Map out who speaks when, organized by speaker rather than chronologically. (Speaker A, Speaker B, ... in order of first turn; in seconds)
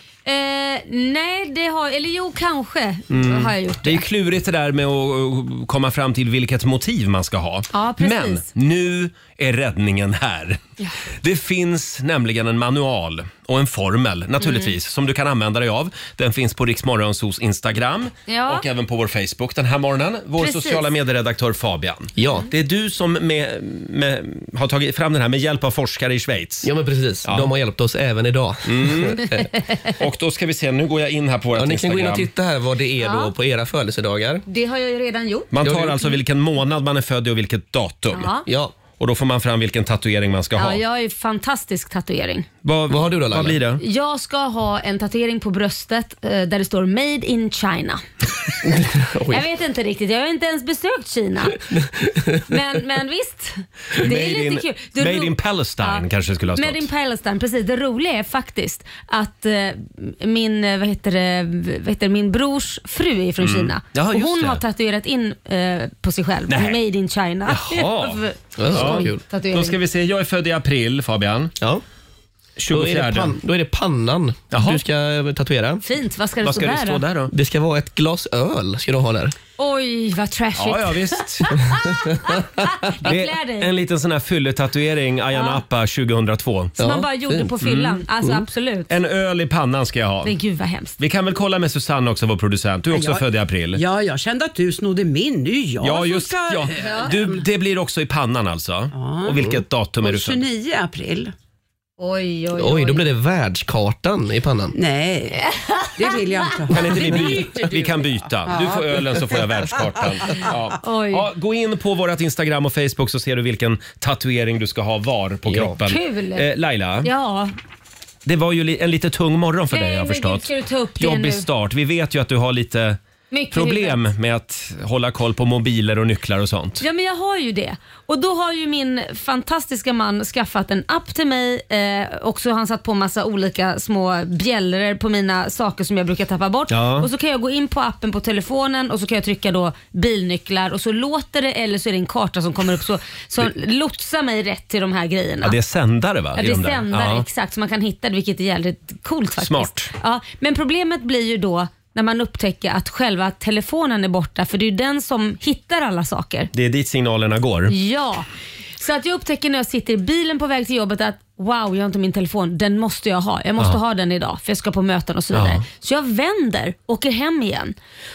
Speaker A: 0.2-4.0, 7.7-8.4, 14.4-14.7, 18.3-18.6, 20.4-20.9, 33.0-33.3, 34.5-35.5, 38.1-38.5, 40.5-42.5, 43.8-48.0, 49.3-51.7, 52.5-69.8, 75.8-77.0, 79.6-83.7, 85.3-85.6, 86.8-88.9, 90.2-91.0, 96.7-97.1, 102.0-103.0, 105.4-106.2, 110.8-111.3, 115.8-116.5, 117.0-117.5, 119.7-121.5, 123.3-124.0, 126.8-145.6, 146.3-156.5, 157.7-158.2, 158.8-167.8
Speaker B: 3.1-10.6, 11.2-26.7, 27.2-27.5, 28.6-32.3, 35.5-38.3, 38.9-40.8, 42.6-43.8, 54.0-56.9, 63.4-64.6, 66.5-66.8, 67.5-71.5, 72.6-73.3, 74.5-74.8, 76.4-77.3, 80.5-81.5, 83.0-86.8, 87.6-88.0, 88.9-90.3, 91.0-93.8, 95.8-100.4, 106.7-117.1, 118.2-123.0, 123.5-126.8, 136.7-137.1, 145.4-147.2, 149.4-149.9, 156.5-157.7, 165.3-165.6
Speaker C: 22.2-22.5, 26.6-29.4, 31.6-34.4, 35.6-36.0, 38.4-38.8, 42.9-43.6, 48.6-49.4, 51.7-52.4, 68.6-69.2, 72.7-75.8, 77.3-79.3, 86.8-87.5, 102.5-104.8
Speaker D: 92.9-97.4, 98.9-99.5, 100.0-101.3, 104.7-105.4, 106.0-109.4